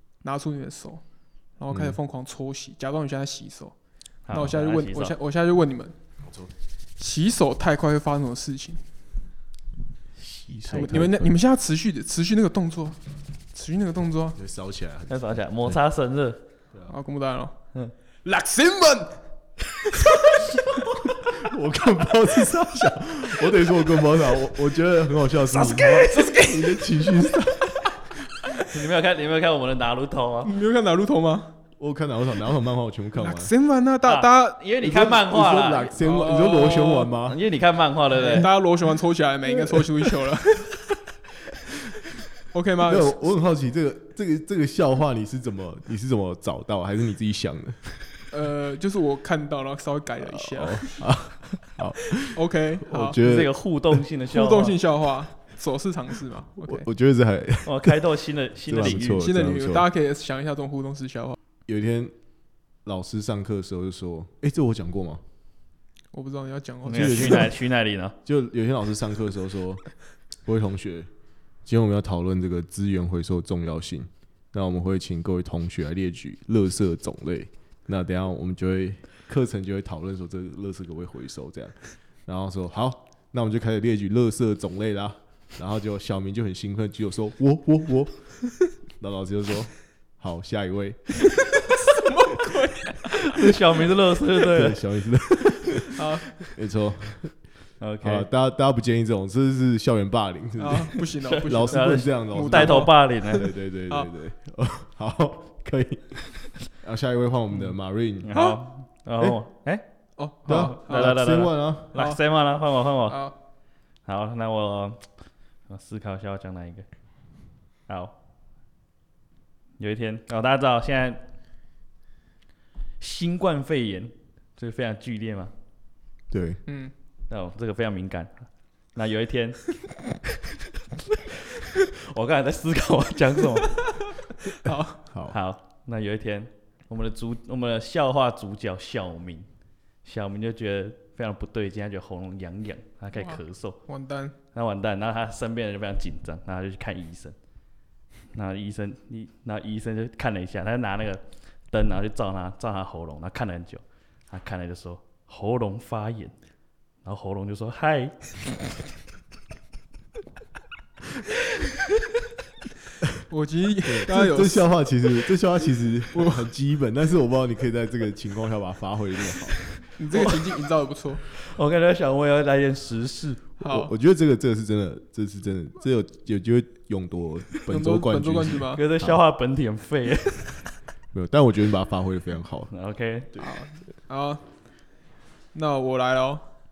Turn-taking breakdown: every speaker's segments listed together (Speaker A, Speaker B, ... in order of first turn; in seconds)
Speaker A: 0.2-1.0, 1.6-3.7, 4.3-5.9, 7.0-8.8, 10.8-13.0, 13.5-14.4, 16.9-17.5, 18.2-19.2, 25.4-27.3, 30.4-31.5, 33.2-34.6, 35.9-37.1, 38.1-41.0, 42.5-43.2, 48.3-51.0, 52.3-53.2, 54.3-56.9, 58.9-61.4, 66.1-67.5, 91.3-93.5, 95.9-96.3, 100.6-104.1, 108.3-108.6, 110.2-111.1, 111.9-112.2, 113.1-113.3, 126.7-126.9, 134.5-135.0, 143.2-144.3, 163.3-165.3, 166.1-166.5, 169.9-171.2, 173.6-173.9, 177.7-178.8, 183.4-184.4, 185.5-186.5
Speaker B: 1.7-2.0, 6.2-6.5, 10.5-11.3, 14.3-15.8, 21.0-28.1, 31.8-33.5, 34.8-37.4, 42.8-48.0, 50.2-53.5, 56.6-58.0, 58.7-59.9, 61.7-62.1, 62.8-65.2, 66.9-67.6, 68.2-69.8, 70.4-71.1, 71.6-91.2, 94.4-97.3, 98.0-108.3, 110.5-112.0, 126.3-126.6, 135.1-135.3, 163.8-169.7, 173.6-179.2, 181.1-182.7
Speaker C: 4.3-5.2, 10.2-11.1, 15.1-16.4, 28.6-30.5, 34.0-35.9, 37.2-38.5, 53.2-54.8, 57.6-59.3, 66.8-68.1, 93.0-94.8, 97.8-98.3, 101.2-103.5, 108.2-109.8, 110.5-113.3, 114.0-115.1, 115.7-116.9, 117.9-118.1, 119.8-121.2, 123.0-125.5, 127.3-129.7, 131.5-133.9, 135.3-139.5, 140.0-143.8, 144.5-147.3, 148.3-156.3, 157.0-158.4, 171.2-173.4, 178.7-180.6, 182.7-183.3